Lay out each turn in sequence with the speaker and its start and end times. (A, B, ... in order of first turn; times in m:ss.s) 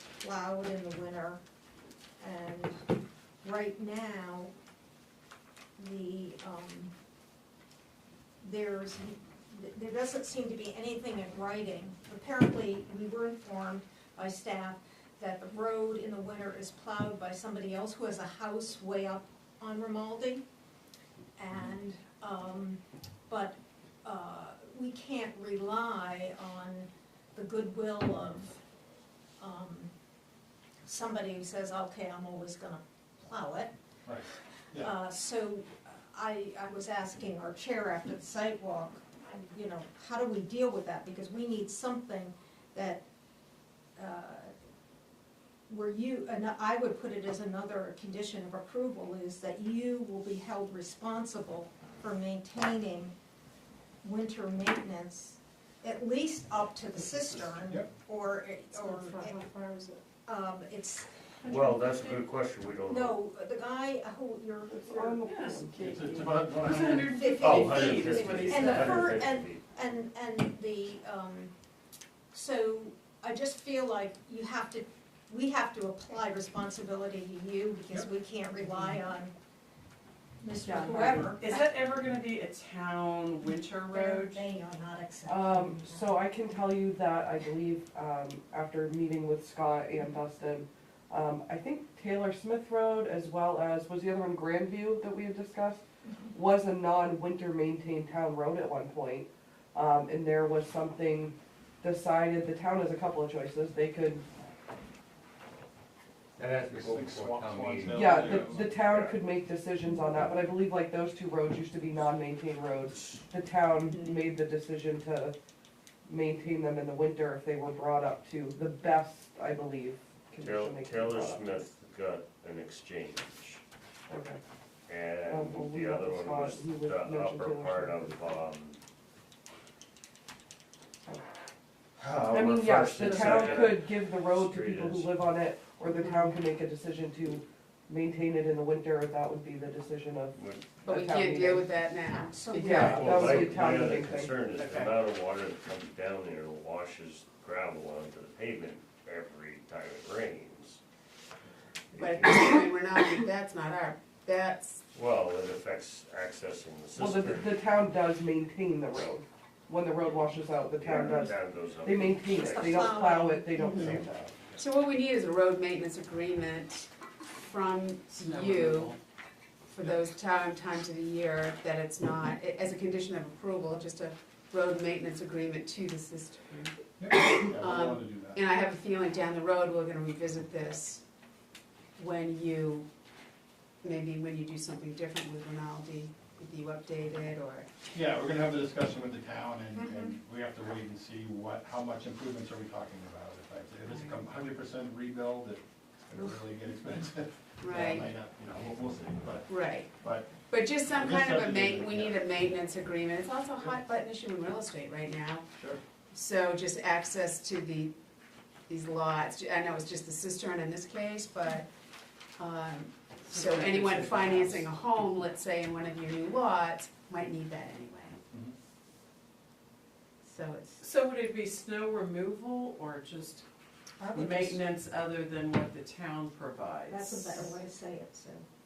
0:00.2-0:01.4 A
0:02.2-0:02.8 A
0:03.4-0:04.5 A
0:05.8-0:06.9 A
0:08.4-0:20.4 A
0:21.4-0:28.6 A
0:29.4-0:29.9 A
0:30.8-0:33.7 A
0:34.0-0:34.9 B
0:34.8-0:43.0 A
0:44.0-0:44.5 A
0:45.7-0:53.2 A
0:54.0-0:59.4 A
0:57.5-0:57.9 B
0:59.3-0:59.8 C
1:00.2-1:01.7 A
1:01.4-1:03.2 D
1:02.9-1:05.3 A
1:04.7-1:06.0 E
1:05.3-1:09.2 C
1:05.7-1:07.3 B
1:06.8-1:11.5 A
1:07.3-1:09.6 D
1:12.3-1:19.3 A
1:20.4-1:21.6 A
1:20.7-1:24.5 C
1:20.8-1:21.3 E
1:23.9-1:26.1 A
1:25.3-1:44.2 E
1:46.4-1:49.2 D
1:46.7-1:48.8 B
1:47.9-1:55.4 E
1:56.1-2:01.5 E
2:00.4-2:03.6 D
2:04.1-2:04.4 E
2:04.9-2:08.8 D
2:05.3-2:08.3 E
2:12.0-2:15.1 D
2:12.3-2:21.6 E
2:13.0-2:13.6 C
2:16.0-2:16.3 F
2:20.3-2:20.7 D
2:20.8-2:23.5 F
2:22.1-2:23.5 A
2:22.6-2:24.3 E
2:22.8-2:30.8 D
2:24.5-2:24.9 F
2:31.9-2:32.6 D
2:31.9-2:34.8 F
2:34.9-2:37.6 D
2:37.0-2:44.3 E
2:40.8-2:43.0 D
2:42.3-2:44.0 A
2:43.6-2:44.0 F
2:44.6-2:49.0 F
2:48.1-2:49.0 C
2:49.7-3:01.0 F
2:57.0-2:58.4 B
3:02.0-3:02.9 F
3:03.8-3:07.7 F
3:07.9-3:20.3 B
3:09.7-3:10.2 A
3:13.8-3:14.2 F
3:17.6-3:18.1 F
3:19.5-3:19.9 F
3:20.5-3:25.5 F
3:20.8-3:22.2 B
3:26.1-3:27.9 F
3:28.7-3:31.7 F
3:32.4-3:38.2 F
3:33.3-3:34.7 C
3:40.2-3:40.9 F
3:40.8-3:43.4 C
3:44.0-3:44.6 A
3:44.1-3:47.5 C
3:46.9-3:48.5 A